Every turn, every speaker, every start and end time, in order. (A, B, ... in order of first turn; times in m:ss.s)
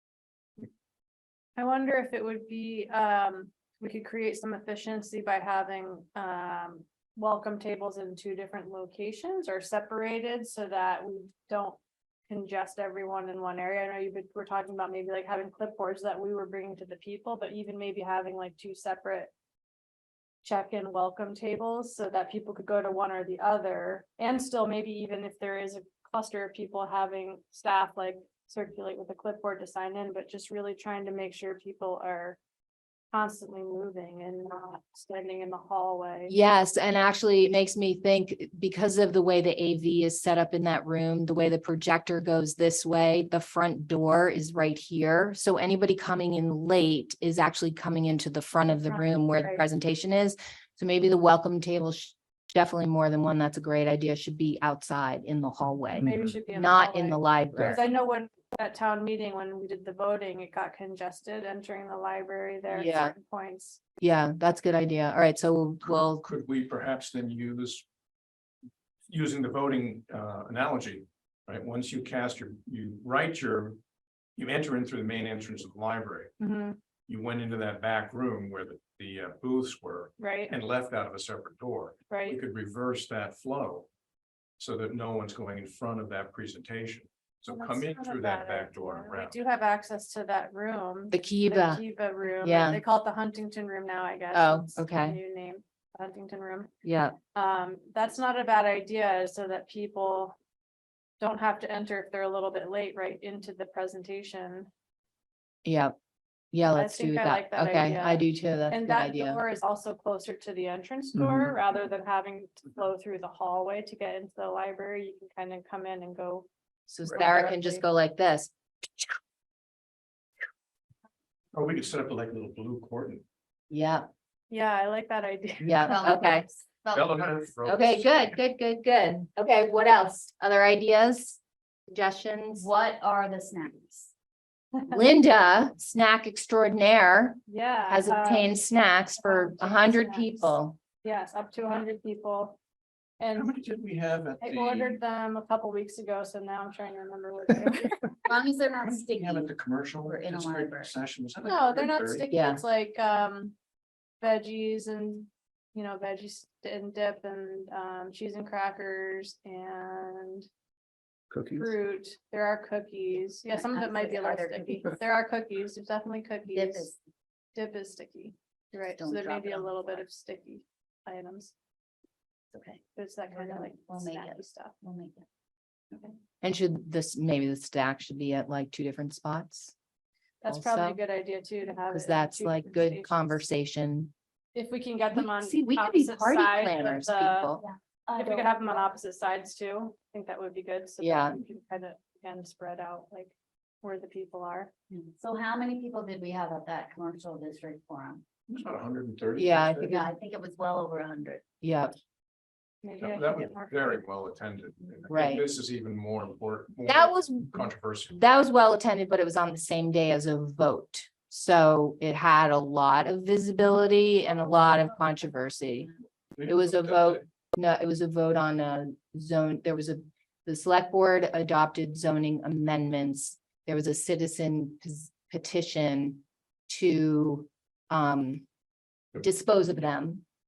0:01.6-0:19.3 A
0:20.4-0:32.4 A
0:33.1-0:36.4 A
0:36.3-0:57.8 B
0:48.8-0:49.6 A
0:56.0-1:03.8 A
1:02.7-1:03.2 B
1:04.0-1:06.2 B
1:05.9-1:07.8 C
1:09.1-1:13.8 C
1:14.4-1:16.3 C
1:16.4-1:16.8 A
1:17.1-1:23.9 C
1:20.2-1:20.6 A
1:22.1-1:22.4 A
1:24.6-1:29.4 C
1:27.5-1:36.7 A
1:31.1-1:31.8 B
1:32.4-1:32.8 B
1:34.3-1:35.2 B
1:36.8-1:37.2 B
1:37.3-1:40.4 A
1:41.2-1:44.7 A
1:45.7-1:45.9 B
1:46.5-1:49.4 B
1:46.8-1:56.5 A
1:56.9-1:58.5 B
1:57.1-1:57.8 A
2:01.5-2:03.2 C
2:03.7-2:04.1 B
2:04.5-2:06.1 A
2:05.6-2:06.5 B
2:05.8-2:07.2 D
2:06.9-2:08.4 C
2:07.7-2:11.4 B
2:11.9-2:12.7 B
2:12.6-2:14.1 D
2:14.8-2:15.0 A
2:14.9-2:20.8 B
2:17.5-2:18.6 A
2:19.2-2:22.6 A
2:23.2-2:23.5 A
2:23.3-2:25.0 C
2:24.4-2:28.2 A
2:28.3-2:29.5 D
2:28.8-2:32.3 C
2:30.0-2:30.9 D
2:31.4-2:33.5 A
2:32.3-2:32.6 B
2:34.2-2:40.5 A
2:41.3-2:41.7 C
2:41.5-2:46.9 A
2:43.5-2:45.0 D
2:46.5-2:47.0 D
2:47.6-2:51.5 A
2:48.7-2:50.0 D
2:52.5-2:55.3 D
2:53.0-2:54.8 A
2:56.4-2:59.7 B
3:00.4-3:03.4 A
3:00.5-3:01.0 B
3:01.9-3:04.1 B
3:04.6-3:07.5 A
3:05.1-3:07.6 B
3:07.6-3:08.9 D
3:08.2-3:14.7 A
3:11.0-3:11.4 B
3:14.9-3:18.2 D
3:18.5-3:20.1 C
3:19.4-3:20.0 B
3:19.8-3:21.4 D
3:21.6-3:22.0 B
3:22.8-3:24.0 A
3:23.0-3:28.2 C
3:25.1-3:25.4 B
3:26.9-3:35.9 B
3:36.4-3:37.3 C
3:36.5-3:48.4 B
3:49.2-3:50.2 B